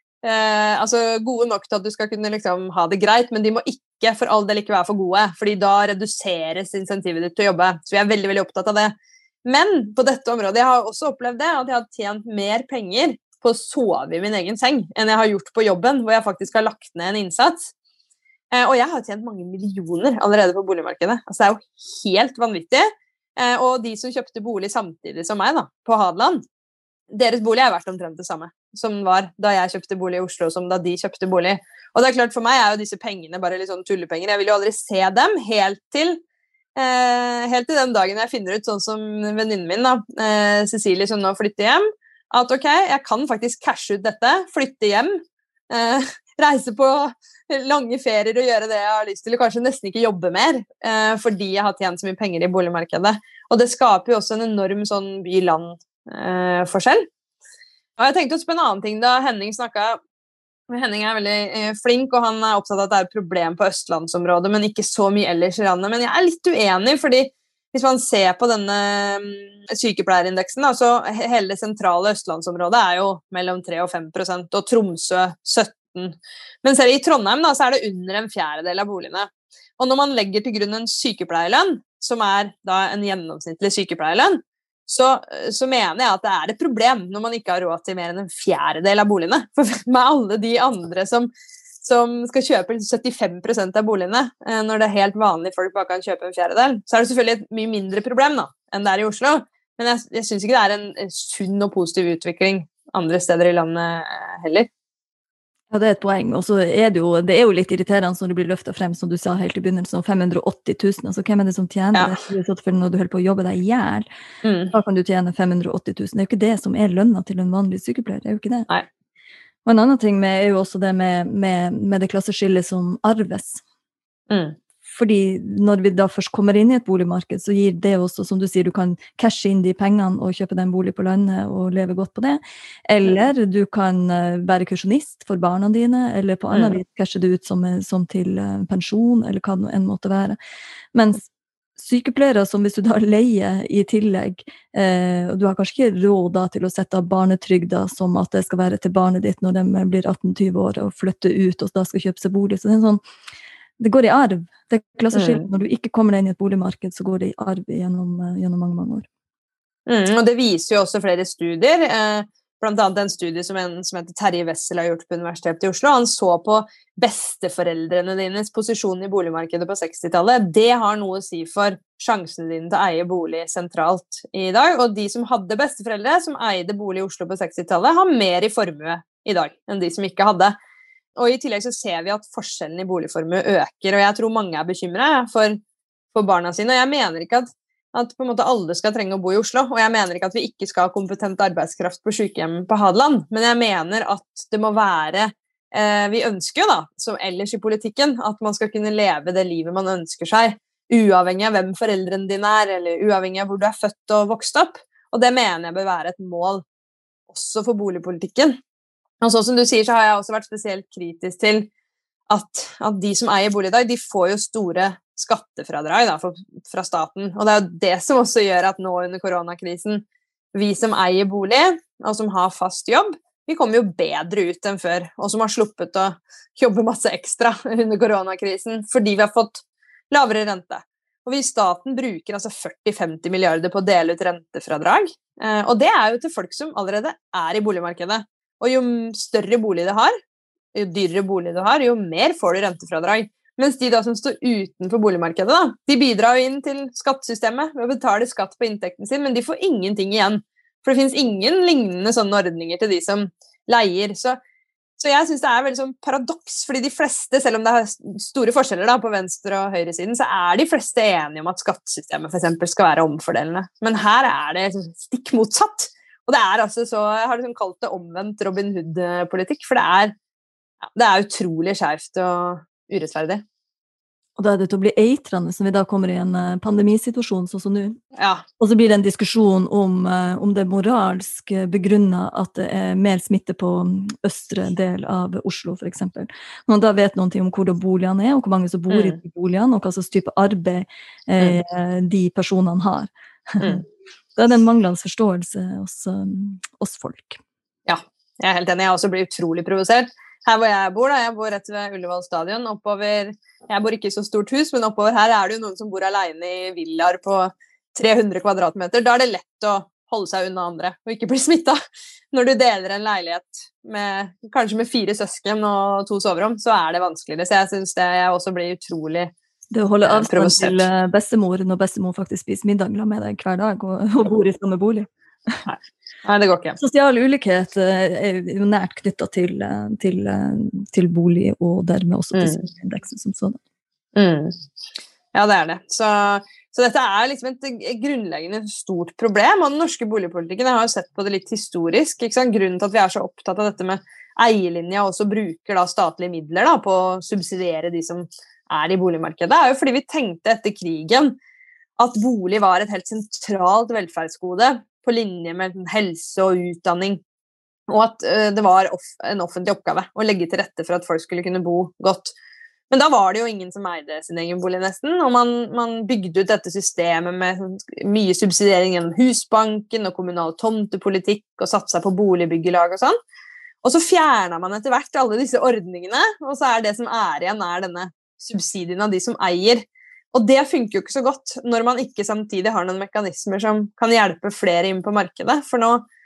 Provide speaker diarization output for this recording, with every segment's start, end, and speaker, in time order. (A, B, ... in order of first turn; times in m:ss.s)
0:00.2-0:17.7 A
0:18.5-0:26.4 A
0:27.1-0:36.2 A
0:36.8-0:57.1 A
0:58.0-1:00.0 A
1:00.7-1:31.3 A
1:31.8-1:44.7 A
1:45.7-1:54.1 B
1:54.4-1:54.7 A
1:54.7-1:58.7 B
1:59.6-2:03.6 B
2:04.3-2:04.6 A
2:04.9-2:20.4 B
2:16.5-2:16.8 A
2:20.9-2:33.0 B
2:33.8-2:39.1 B
2:35.1-2:35.5 A
2:39.9-3:00.6 A
3:01.2-3:05.6 A
3:06.1-3:26.6 A
3:27.3-3:28.6 A
3:29.2-3:31.7 A
3:32.3-4:00.2 A
4:00.7-4:14.4 A
4:15.0-4:30.2 A
4:31.0-4:33.4 A
4:34.4-4:38.0 B
4:38.2-4:38.4 A
4:38.6-4:53.8 B
4:48.9-4:49.2 A
4:54.4-4:57.4 B
4:57.9-5:11.8 A
5:12.3-5:19.3 A
5:19.7-5:25.6 B
5:20.1-5:20.8 A
5:25.7-5:26.8 A
5:26.8-5:33.6 B
5:32.3-5:32.7 A
5:34.2-5:34.6 A
5:35.3-5:51.4 A
5:52.0-5:57.2 A
5:57.9-6:02.3 A
6:02.9-6:13.2 A
6:13.8-6:26.0 A